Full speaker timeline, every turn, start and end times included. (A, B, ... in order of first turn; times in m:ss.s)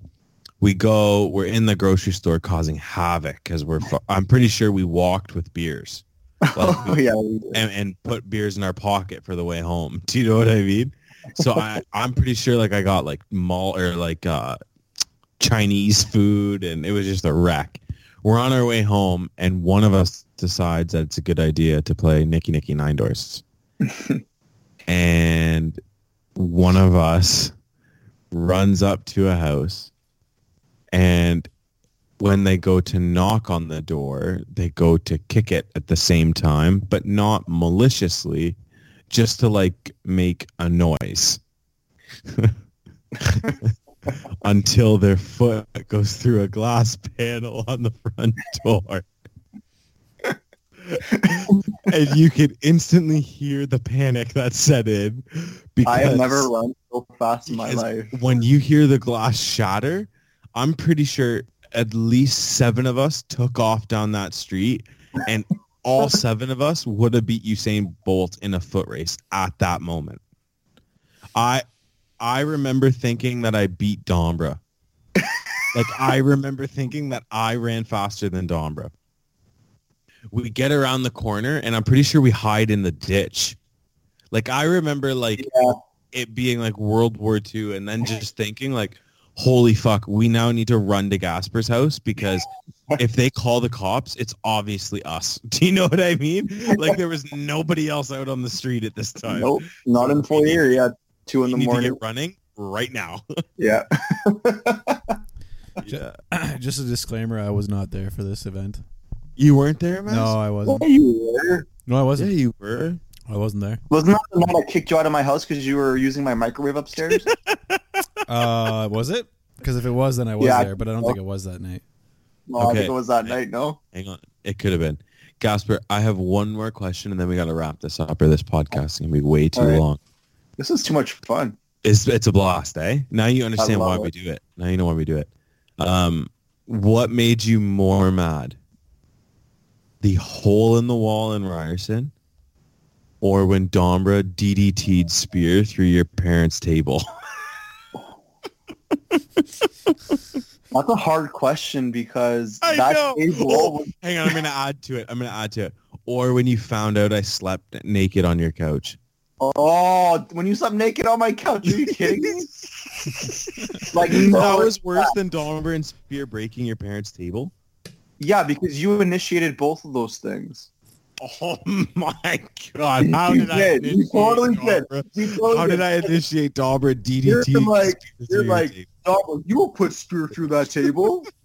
0:00.6-0:07.0 A
0:06.4-0:07.6 B
0:07.5-0:14.6 A
0:15.4-0:23.4 A
0:23.9-0:24.2 B
0:24.9-0:25.8 A
0:26.4-0:27.5 A
0:28.3-0:29.9 A
0:30.9-0:31.5 A
0:32.2-0:38.6 A
0:39.1-0:41.4 A
0:42.3-0:42.6 A
0:43.2-0:49.0 A
0:50.8-0:56.5 A
0:51.2-0:51.5 B
0:55.8-0:58.1 B
0:57.5-1:10.2 A
1:11.3-1:11.6 A
1:12.2-1:14.6 A
1:15.2-1:15.5 B
1:15.7-1:18.9 A
1:20.3-1:23.6 A
1:24.3-1:25.5 A
1:25.4-1:25.7 B
1:26.1-1:40.6 A
1:39.3-1:42.0 B
1:41.5-1:43.2 A
1:43.6-1:45.2 B
1:45.8-1:46.1 A
1:45.8-1:48.8 C
1:49.4-1:50.4 A
1:50.1-1:50.8 C
1:50.6-1:51.7 B
1:51.8-1:52.3 C
1:52.2-1:53.0 A
1:53.3-1:53.8 C
1:53.9-1:57.3 B
1:57.1-1:58.0 A
1:58.2-2:01.8 C
2:00.4-2:01.2 B
2:02.5-2:03.8 B
2:02.6-2:03.4 A
2:03.9-2:10.0 A
2:09.6-2:09.8 B
2:10.6-2:11.6 B
2:11.8-2:18.6 A
2:13.6-2:14.1 B
2:20.0-2:22.1 A
2:23.2-2:27.0 A
2:30.7-2:33.9 B
2:32.6-2:39.0 A
2:39.4-2:42.5 B
2:41.6-2:42.5 A
2:43.0-2:45.1 B
2:43.0-2:47.5 A
2:48.2-2:50.7 B
2:51.2-2:58.9 A
2:53.0-2:56.1 B
2:57.2-3:01.3 B